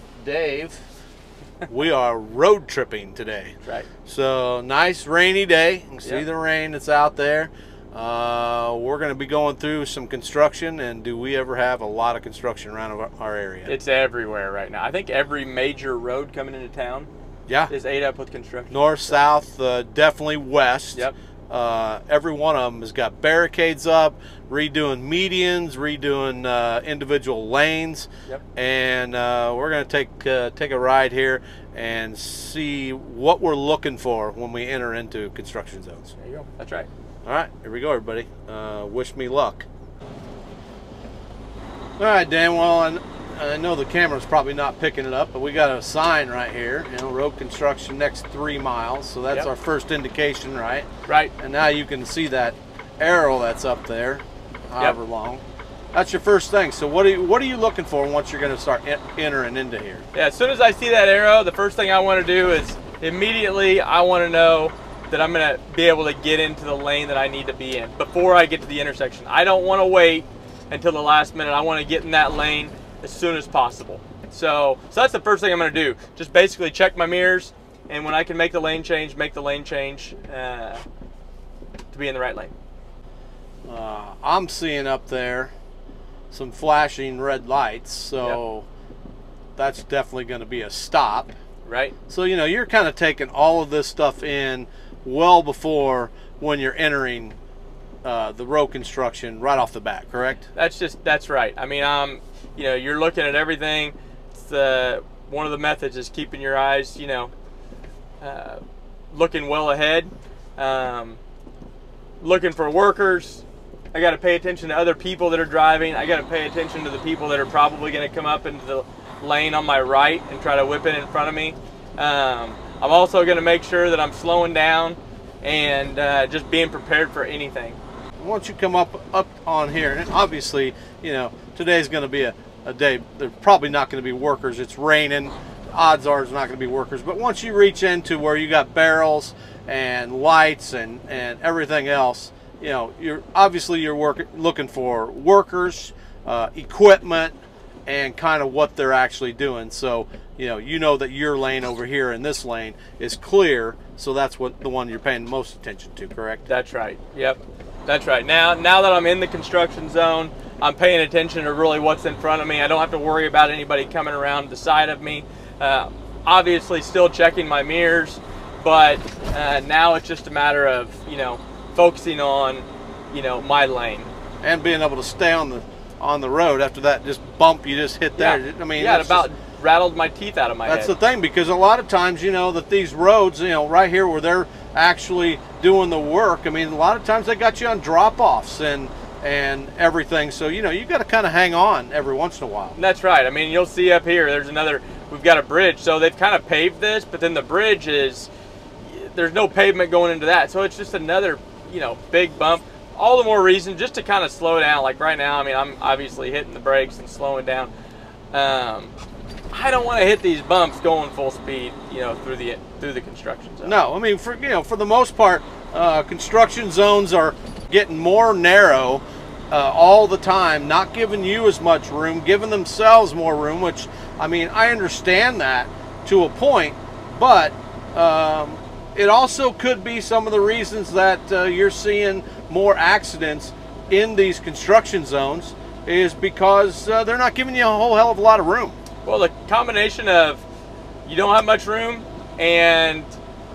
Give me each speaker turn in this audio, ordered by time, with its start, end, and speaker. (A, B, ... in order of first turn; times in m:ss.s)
0:00.2-0:00.8 A
0:01.6-0:03.5 A
0:04.0-0:13.7 A
0:13.6-0:17.1 B
0:17.7-0:19.2 B
0:18.7-0:36.1 A
0:36.2-0:36.9 B
0:37.2-0:39.7 A
0:42.0-0:55.4 A
0:51.1-0:51.3 B
0:55.9-1:00.0 A
1:00.1-1:20.8 B
1:21.9-1:22.5 B
1:23.6-1:25.5 A
1:26.3-1:28.7 A
1:29.6-1:31.3 A
1:31.6-1:31.9 B
1:32.1-1:37.4 A
1:38.0-1:40.5 A
1:40.5-1:47.3 B
1:48.2-1:51.2 B
1:52.2-2:07.8 B
2:08.2-2:27.3 A
2:27.9-2:36.4 A
2:36.4-2:54.1 B
2:54.4-2:59.3 A
2:58.2-3:00.9 B
3:00.7-3:12.8 A
3:12.8-3:18.3 B
3:18.8-3:27.7 B
3:28.3-3:28.9 B
3:29.5-3:33.8 B
3:33.6-3:58.8 A
3:59.0-4:00.4 B
4:01.0-4:03.1 B